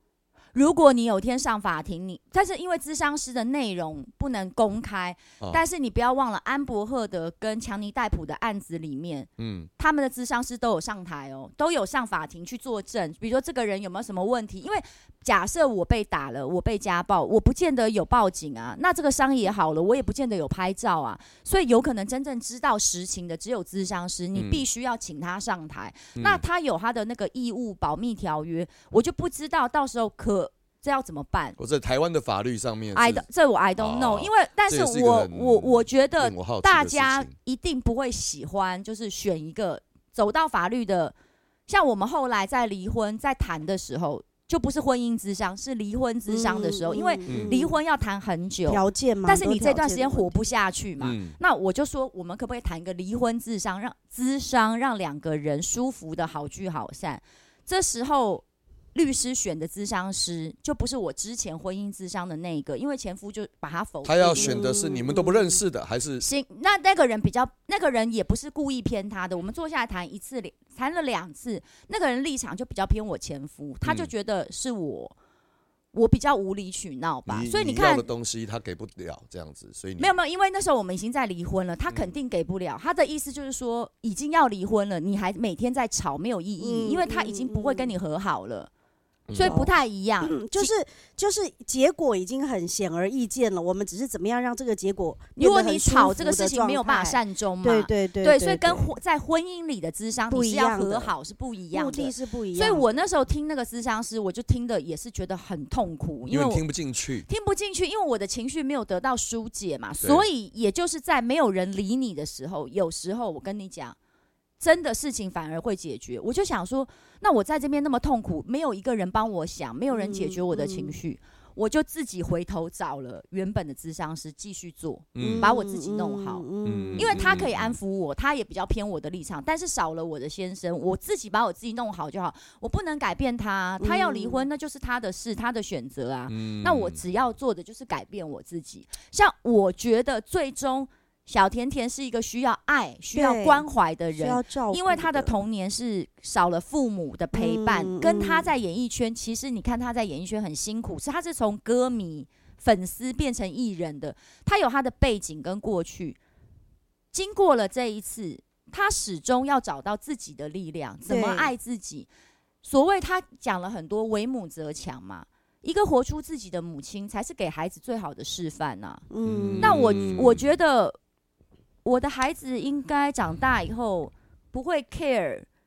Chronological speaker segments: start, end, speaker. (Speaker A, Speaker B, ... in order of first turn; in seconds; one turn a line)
Speaker A: 0.5-9.3
Speaker B: 9.4-9.7
Speaker A: 9.8-31.6
Speaker B: 24.4-24.6
Speaker B: 26.2-26.4
Speaker B: 31.6-33.2
Speaker A: 33.0-41.1
Speaker B: 33.8-37.3
Speaker A: 41.7-64.6
Speaker C: 46.3-47.8
Speaker B: 47.3-47.6
Speaker C: 48.7-50.4
Speaker B: 51.0-51.4
Speaker B: 64.0-66.2
Speaker C: 64.4-65.6
Speaker A: 66.2-75.2
Speaker B: 73.8-74.1
Speaker A: 75.9-78.1
Speaker B: 77.3-80.1
Speaker A: 80.0-88.7
Speaker C: 86.6-87.9
Speaker B: 89.3-89.6
Speaker A: 89.4-90.7
Speaker C: 89.4-99.0
Speaker A: 95.4-106.6
Speaker C: 100.3-101.2
Speaker C: 101.7-103.0
Speaker B: 106.3-107.3
Speaker A: 107.3-114.0
Speaker A: 114.6-126.5
Speaker C: 119.9-121.0
Speaker B: 125.2-125.5
Speaker C: 125.2-127.2
Speaker B: 126.7-127.8
Speaker A: 127.0-156.2
Speaker C: 133.8-134.5
Speaker B: 136.3-137.0
Speaker C: 143.2-145.3
Speaker C: 147.3-148.5
Speaker A: 157.1-162.1
Speaker C: 161.1-161.5
Speaker A: 162.6-169.1
Speaker C: 169.1-169.8
Speaker B: 169.2-170.4
Speaker A: 169.6-171.0
Speaker A: 171.8-175.5